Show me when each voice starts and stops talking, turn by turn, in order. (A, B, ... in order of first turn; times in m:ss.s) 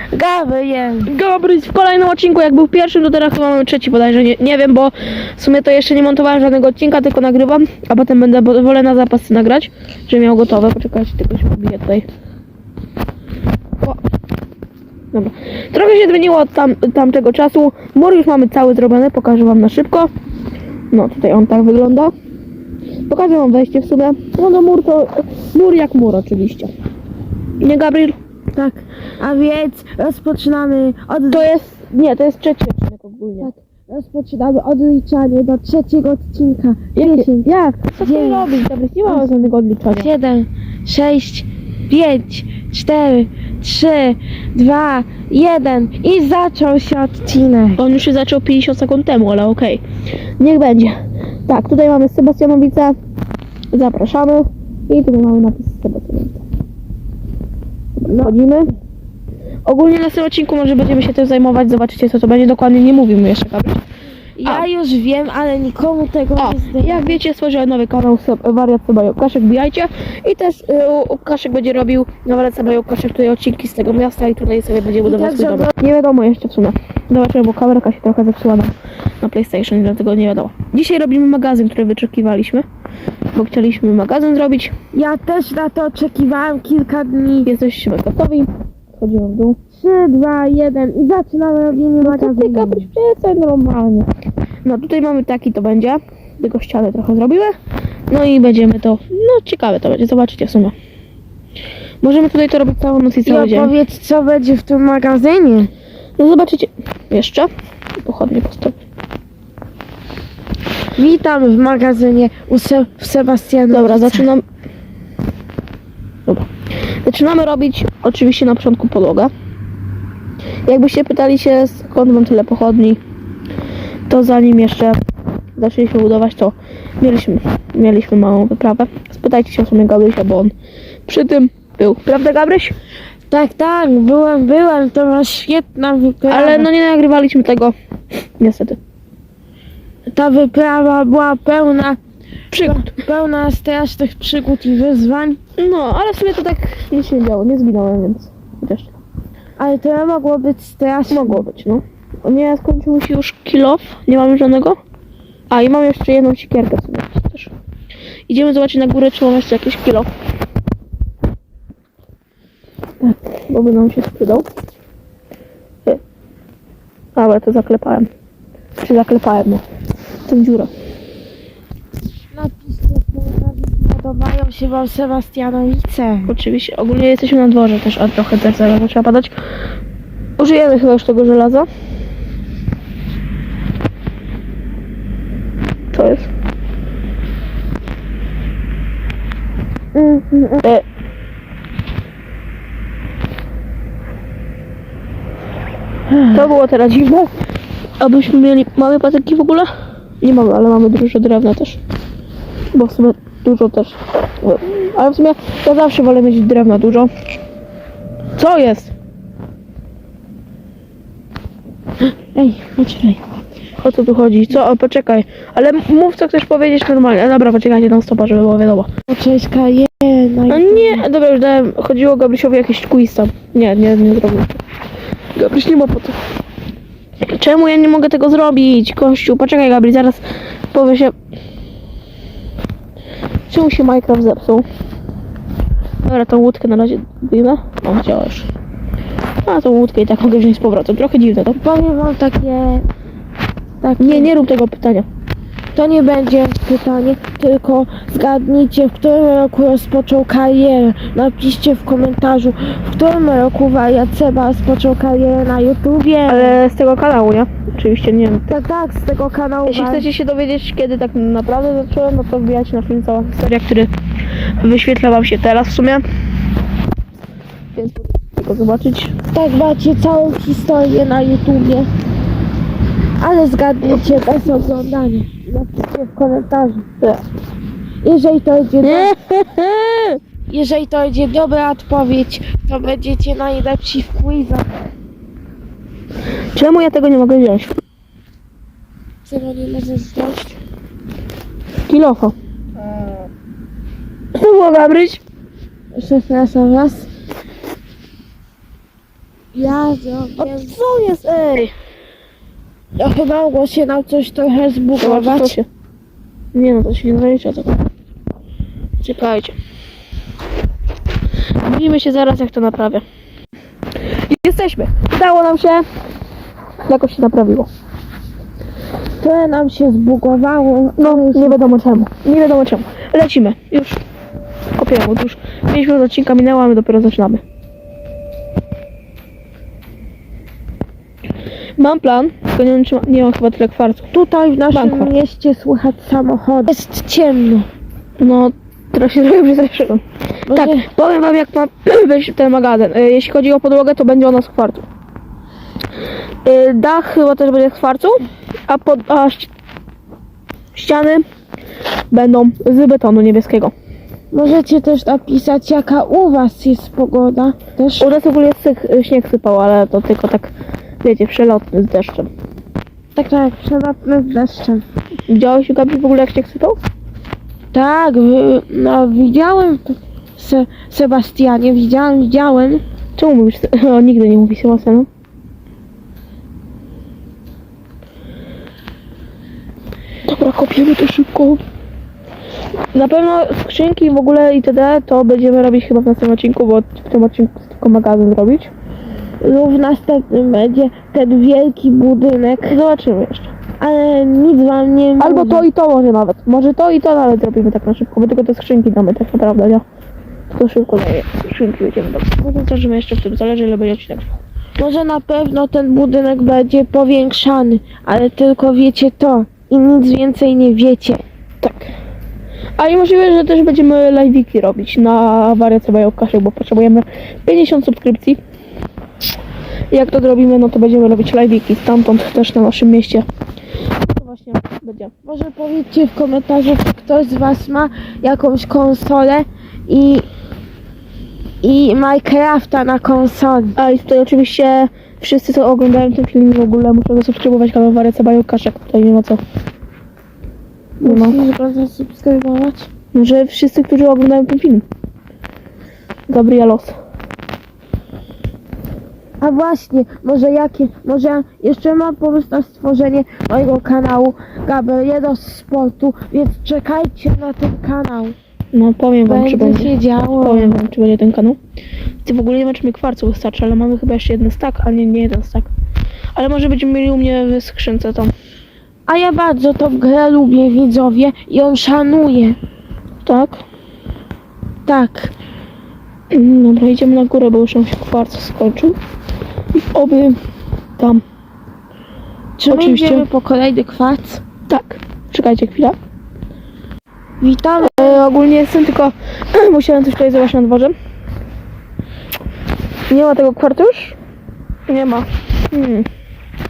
0:00.1-0:01.1 A
0:01.0-0:12.1 B
0:15.1-0:20.1 B
0:20.9-0:22.1 B
0:23.1-0:26.7 B
0:27.6-0:28.2 B
0:28.5-0:31.5 A
0:31.3-0:33.5 B
0:33.4-0:47.8 A
0:37.0-0:40.1 B
0:47.8-0:49.8 B
0:50.4-0:53.0 B
0:53.7-0:56.4 B
0:58.0-0:58.7 B
0:58.0-0:58.4 A
0:59.7-1:03.8 B
1:04.4-1:07.2 A
1:06.4-1:22.7 B
1:15.0-1:15.7 A
1:23.3-1:24.8 B
1:24.9-1:27.5 A
1:27.4-1:29.6 B
1:29.7-1:32.9 A
1:32.0-1:34.1 B
1:34.6-1:37.6 B
1:38.1-1:40.7 B
1:42.0-1:43.7 B
1:43.2-1:45.7 A
1:46.2-1:48.8 B
1:51.0-1:54.3 A
1:53.7-1:54.4 B
1:57.0-1:59.3 B
2:00.7-2:03.0 B
2:04.1-2:05.0 B
2:05.6-2:10.5 B
2:11.1-2:12.7 B
2:13.3-2:16.7 A
2:16.3-2:17.8 B
2:18.4-2:18.8 B
2:20.1-2:22.0 A
2:22.5-2:23.0 B
2:22.6-2:25.4 A
2:25.6-2:29.0 B
2:29.6-2:31.5 A
2:31.1-2:34.8 B
2:35.5-2:37.5 B
2:38.3-2:40.1 B
2:43.1-2:44.5 B
2:47.2-2:48.1 B
2:48.8-2:49.6 B
2:50.3-2:50.7 B
2:52.3-2:56.3 A
2:56.3-2:59.4 B
3:00.4-3:01.7 B
3:05.9-3:06.3 B
3:10.0-3:10.6 A
3:16.1-3:16.5 A
3:16.3-3:17.3 B
3:18.0-3:19.7 B
3:20.2-3:21.8 B
3:22.7-3:27.1 B
3:28.4-3:28.9 B
3:32.2-3:33.2 A
3:33.8-3:38.9 B
3:39.1-3:41.0 A
3:40.5-3:44.6 B
3:45.4-3:46.2 B
3:47.3-3:51.1 B
3:53.5-3:54.6 B
3:56.0-3:58.5 B
3:59.4-4:01.6 B
4:01.6-4:02.9 A
4:03.8-4:04.3 A
4:04.0-4:05.1 B
4:05.7-4:16.6 A
4:16.3-4:18.6 B
4:18.5-4:20.1 A
4:19.7-4:23.9 B
4:24.6-4:26.0 B
4:27.7-4:29.2 B
4:29.3-4:31.9 A
4:33.2-4:36.9 A
4:38.0-4:39.2 A
4:38.8-4:40.2 B
4:40.5-4:44.7 A
4:46.5-4:47.7 B
4:49.3-4:50.6 A
4:51.9-4:52.3 B
4:54.4-4:55.2 B
4:55.9-4:57.1 A
4:59.5-5:00.7 A
5:00.4-5:01.7 B
5:03.0-5:05.6 A
5:05.0-5:05.7 B
5:06.5-5:07.8 B
5:09.0-5:09.6 B
5:11.6-5:13.0 B
5:14.1-5:15.8 B
5:16.9-5:17.7 B
5:19.2-5:21.7 A
5:21.0-5:24.0 B
5:24.8-5:27.4 B
5:31.8-5:34.1 B
5:34.1-5:37.7 A
5:34.7-5:35.1 B
5:38.2-5:44.9 B
5:40.5-5:40.9 A
5:46.4-5:49.5 B
5:50.8-5:51.2 B
5:52.1-5:53.7 B
5:54.3-5:58.1 A
5:58.0-6:02.3 B
6:03.2-6:04.8 A
6:05.3-6:06.8 B
6:07.7-6:12.8 A
6:13.2-6:15.1 B
6:20.3-6:21.6 B
6:22.9-6:28.7 B
6:29.4-6:32.8 A
6:32.6-6:33.5 B
6:33.8-6:35.7 A
6:35.2-6:39.8 B
6:40.5-6:44.4 B
6:44.8-6:51.2 A
6:51.6-6:51.9 B
6:52.8-6:58.4 B
6:59.9-7:03.2 B
7:04.1-7:05.1 B
7:05.2-7:10.3 A
7:11.6-7:13.8 A
7:13.8-7:19.4 B
7:21.0-7:22.9 A
7:21.0-7:21.4 B
7:23.1-7:24.8 B
7:26.3-7:27.0 B
7:29.4-7:38.4 A
7:38.7-7:41.6 B
7:39.2-7:40.8 A
7:42.2-7:45.7 B
7:46.4-7:48.3 B
7:49.1-7:52.6 A
7:53.2-7:53.6 B
7:54.9-7:55.3 A
7:56.3-7:59.0 B
7:59.7-8:00.4 B
8:01.0-8:01.2 B
8:02.6-8:04.4 A
8:02.7-8:03.3 B
8:04.7-8:06.0 B
8:07.4-8:08.3 A
8:07.8-8:11.0 B
8:13.1-8:14.2 B
8:14.9-8:16.1 B